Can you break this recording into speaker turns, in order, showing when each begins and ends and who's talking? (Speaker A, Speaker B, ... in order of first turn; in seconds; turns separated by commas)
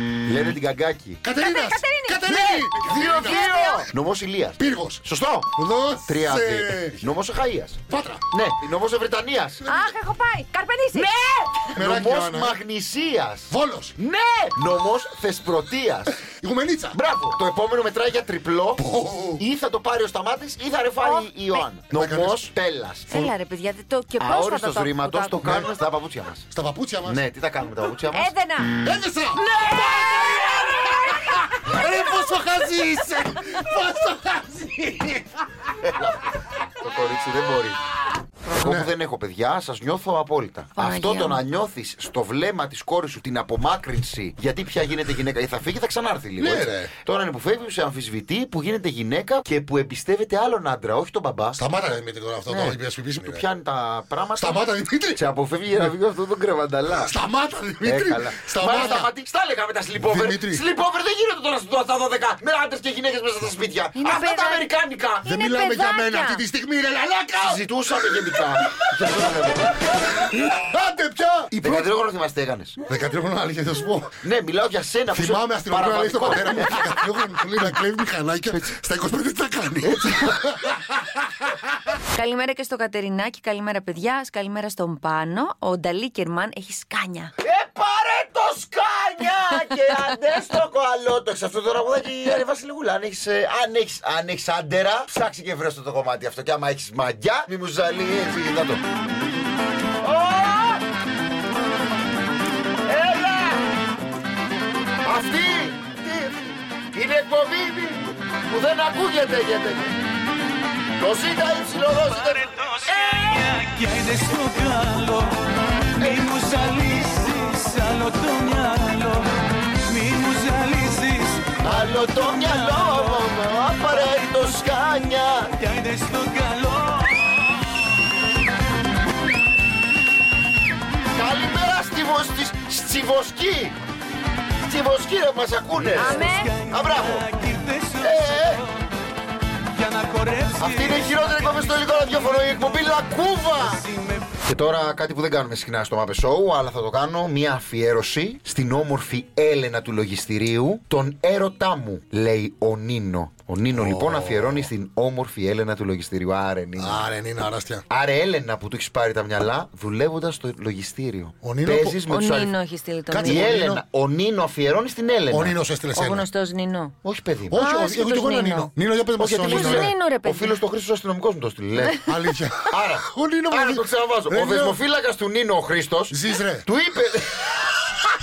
Speaker A: 0.3-1.2, Speaker B: 1.2-3.8, Speaker C: 1.4-3.9, Speaker A: 2.8-5.5, Speaker B: 4.6-7.1, Speaker A: 6.1-9.6, Speaker B: 7.9-8.3, Speaker B: 9.6-9.9, Speaker C: 9.7-11.1, Speaker A: 10.9-16.2, Speaker B: 11.8-12.6, Speaker B: 13.5-14.0, Speaker B: 16.2-17.0, Speaker A: 16.9-18.8, Speaker B: 18.8-19.4, Speaker A: 19.4-23.3, Speaker C: 21.0-21.7, Speaker B: 21.9-22.5, Speaker C: 23.1-25.7, Speaker A: 24.2-26.5, Speaker B: 26.5-27.2, Speaker A: 27.1-28.3, Speaker C: 28.1-28.8, Speaker B: 28.8-29.4, Speaker C: 29.4-31.8, Speaker B: 30.1-35.3, Speaker A: 35.9-37.8, Speaker A: 38.5-51.6, Speaker B: 38.5-38.9, Speaker C: 40.8-41.4, Speaker B: 46.4-46.9, Speaker B: 51.6-53.4, Speaker A: 52.5-54.6, Speaker B: 54.4-55.9, Speaker A: 55.1-57.1, Speaker B: 57.0-59.1, Speaker A: 57.8-65.3, Speaker B: 60.0-60.6, Speaker C: 64.0-64.7, Speaker C: 65.2-66.4, Speaker B: 65.2-69.3, Speaker A: 67.4-70.5, Speaker B: 70.1-71.9, Speaker A: 71.6-72.8, Speaker B: 72.9-74.2, Speaker A: 74.2-77.0, Speaker B: 75.1-80.9, Speaker A: 79.9-80.3, Speaker C: 82.1-87.3, Speaker A: 87.4-98.8, Speaker A: 100.0-100.8, Speaker A: 102.9-103.6, Speaker A: 105.0-110.0, Speaker A: 111.0-113.6, Speaker D: 112.9-115.4, Speaker A: 116.0-117.3, Speaker D: 116.0-119.3, Speaker D: 119.9-121.7, Speaker A: 121.6-125.6, Speaker D: 125.7-127.4, Speaker A: 131.1-133.8, Speaker A: 134.6-137.3, Speaker C: 135.9-136.5, Speaker D: 136.0-138.6, Speaker A: 138.0-138.7, Speaker D: 139.8-141.7, Speaker A: 140.6-143.8, Speaker A: 144.4-157.1, Speaker B: 153.7-154.7, Speaker B: 156.8-157.8, Speaker A: 157.9-162.5, Speaker B: 161.4-162.0, Speaker C: 162.1-163.6, Speaker B: 163.1-163.8, Speaker A: 163.2-165.6, Speaker B: 165.3-166.3, Speaker C: 165.9-166.9, Speaker A: 167.0-167.6, Speaker B: 167.5-169.9, Speaker C: 167.6-168.7, Speaker A: 169.2-172.0, Speaker C: 169.4-170.6, Speaker C: 171.8-172.1, Speaker B: 172.1-174.8, Speaker A: 172.7-177.8, Speaker B: 176.1-176.7